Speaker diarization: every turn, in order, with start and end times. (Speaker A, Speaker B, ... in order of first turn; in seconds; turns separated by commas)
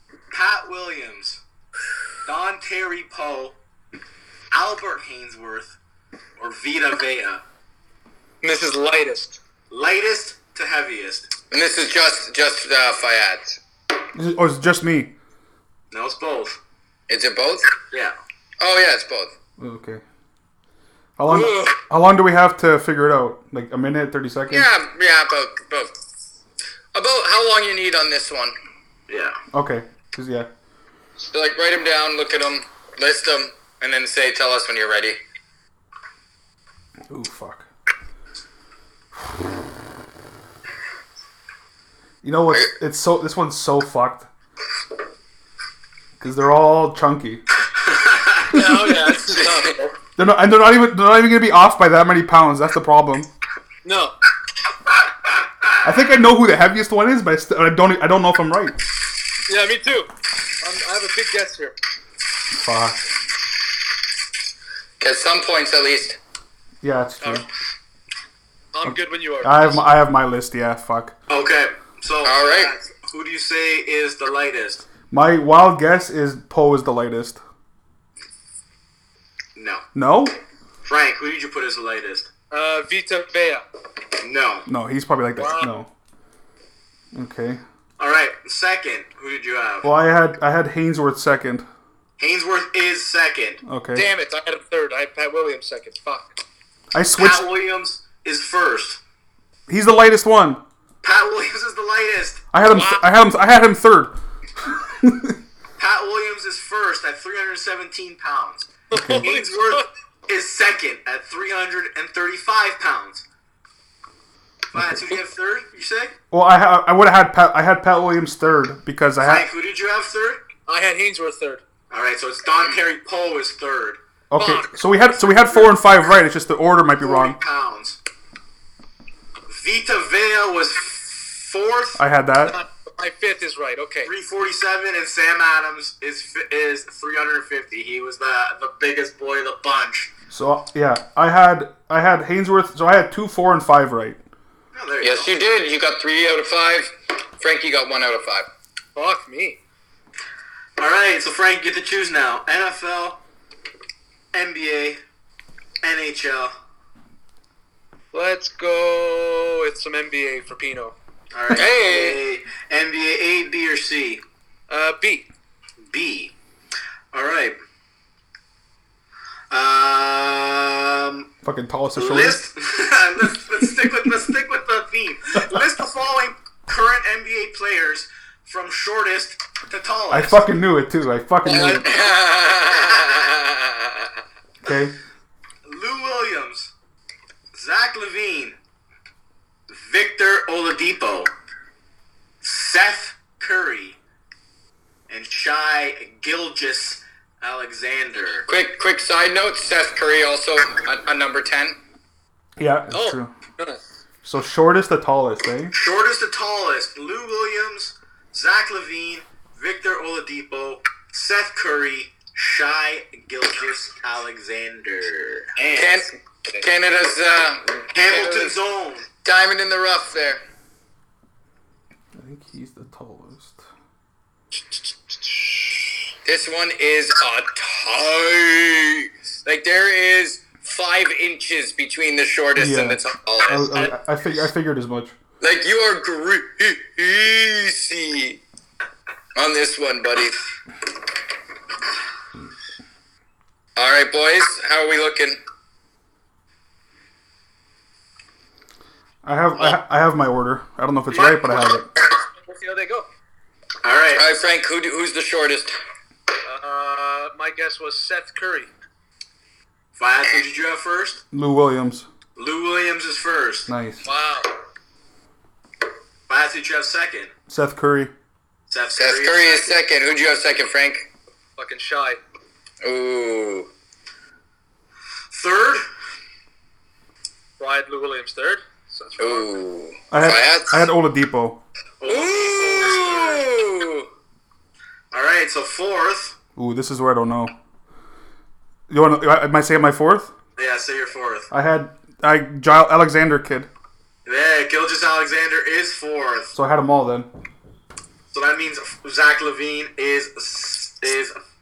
Speaker A: 0.3-1.4, Speaker A: 2.3-3.6, Speaker A: 4.5-5.8, Speaker A: 6.4-7.4, Speaker B: 8.4-9.4, Speaker A: 9.7-11.3, Speaker C: 11.5-13.6, Speaker D: 14.2-15.1, Speaker A: 15.9-16.6, Speaker C: 17.1-17.7, Speaker A: 17.9-18.2, Speaker C: 18.6-19.3, Speaker D: 19.6-20.0, Speaker D: 21.2-24.7, Speaker C: 21.3-21.8, Speaker C: 24.5-25.9, Speaker C: 26.9-28.6, Speaker A: 29.1-29.4, Speaker D: 29.5-30.5, Speaker C: 31.2-35.2, Speaker D: 37.1-37.7, Speaker D: 42.2-44.3, Speaker D: 46.2-47.4, Speaker A: 47.9-48.5, Speaker B: 48.5-50.0, Speaker C: 48.6-49.8, Speaker D: 50.2-53.3, Speaker B: 53.8-54.1, Speaker D: 55.8-58.8, Speaker B: 59.5-60.1, Speaker B: 60.6-61.8, Speaker D: 62.5-63.1, Speaker C: 65.0-66.2, Speaker D: 66.8-67.5, Speaker B: 67.2-67.5, Speaker B: 68.7-69.8, Speaker D: 68.8-71.1, Speaker A: 71.3-72.5, Speaker C: 72.2-72.7, Speaker B: 72.5-72.9, Speaker A: 73.0-74.8, Speaker D: 75.1-77.4, Speaker A: 79.6-79.8, Speaker D: 80.0-80.3, Speaker A: 80.8-82.3, Speaker B: 82.5-83.7, Speaker A: 84.2-84.7, Speaker D: 84.7-85.9, Speaker B: 85.4-85.7, Speaker D: 87.1-87.6, Speaker A: 88.0-89.9, Speaker D: 89.8-91.7, Speaker A: 92.2-93.6, Speaker D: 93.7-94.1, Speaker B: 93.9-96.4, Speaker D: 96.9-97.5, Speaker A: 97.2-99.0, Speaker D: 99.7-100.6, Speaker A: 101.0-102.4, Speaker D: 102.5-104.2, Speaker B: 102.7-103.0, Speaker D: 105.0-105.3, Speaker A: 105.8-113.2, Speaker B: 108.9-109.9, Speaker D: 108.9-109.3, Speaker A: 114.7-116.1, Speaker D: 114.8-115.1, Speaker D: 116.3-119.5, Speaker A: 119.2-120.4, Speaker B: 120.7-121.6, Speaker A: 121.9-124.0, Speaker D: 124.3-127.4, Speaker B: 124.3-124.7, Speaker A: 127.0-128.0, Speaker A: 129.5-132.0, Speaker D: 132.0-132.6, Speaker B: 132.4-134.1, Speaker A: 134.0-140.1, Speaker D: 140.3-144.2, Speaker A: 144.7-145.3, Speaker C: 145.0-148.5, Speaker B: 148.9-149.6, Speaker A: 150.8-153.2, Speaker A: 154.3-155.0, Speaker A: 155.8-156.5, Speaker B: 158.1-160.9, Speaker A: 161.3-164.2, Speaker C: 161.5-162.2, Speaker B: 164.7-165.3, Speaker A: 165.9-166.3, Speaker A: 167.1-167.6, Speaker A: 169.5-171.3, Speaker D: 171.4-172.4, Speaker A: 172.0-180.5, Speaker D: 180.1-181.9, Speaker C: 181.5-183.9, Speaker D: 184.6-184.9, Speaker A: 185.7-186.7, Speaker A: 187.5-188.6, Speaker A: 189.7-191.3, Speaker A: 192.4-194.0, Speaker A: 195.1-198.5, Speaker C: 198.5-201.8, Speaker D: 202.6-203.3, Speaker B: 202.9-203.8, Speaker D: 204.2-205.7, Speaker A: 205.7-216.0, Speaker C: 215.7-218.6, Speaker A: 217.9-219.1, Speaker C: 219.2-220.4, Speaker D: 222.2-223.6, Speaker C: 226.2-233.9, Speaker D: 232.6-235.2, Speaker C: 235.4-238.4, Speaker C: 239.3-240.4, Speaker C: 243.8-245.4, Speaker D: 249.2-251.9, Speaker B: 251.1-251.8, Speaker B: 252.4-253.1, Speaker A: 253.8-254.2, Speaker C: 254.2-255.8, Speaker B: 256.4-258.7, Speaker A: 260.0-261.2, Speaker D: 261.3-262.1, Speaker A: 262.4-263.7, Speaker D: 263.7-264.1, Speaker B: 264.0-264.5, Speaker A: 266.3-267.3, Speaker D: 267.5-268.1, Speaker A: 268.7-269.8, Speaker C: 269.0-271.1, Speaker B: 271.6-272.2, Speaker C: 272.8-273.7, Speaker A: 275.3-275.8, Speaker B: 277.6-279.5, Speaker C: 279.2-280.9, Speaker D: 280.1-281.6, Speaker A: 282.0-283.4, Speaker C: 282.1-284.1, Speaker A: 285.1-286.4, Speaker D: 286.6-287.5, Speaker D: 288.9-290.3, Speaker A: 290.6-291.5, Speaker D: 291.5-293.7, Speaker A: 294.2-296.5, Speaker D: 296.5-297.3, Speaker A: 298.3-301.4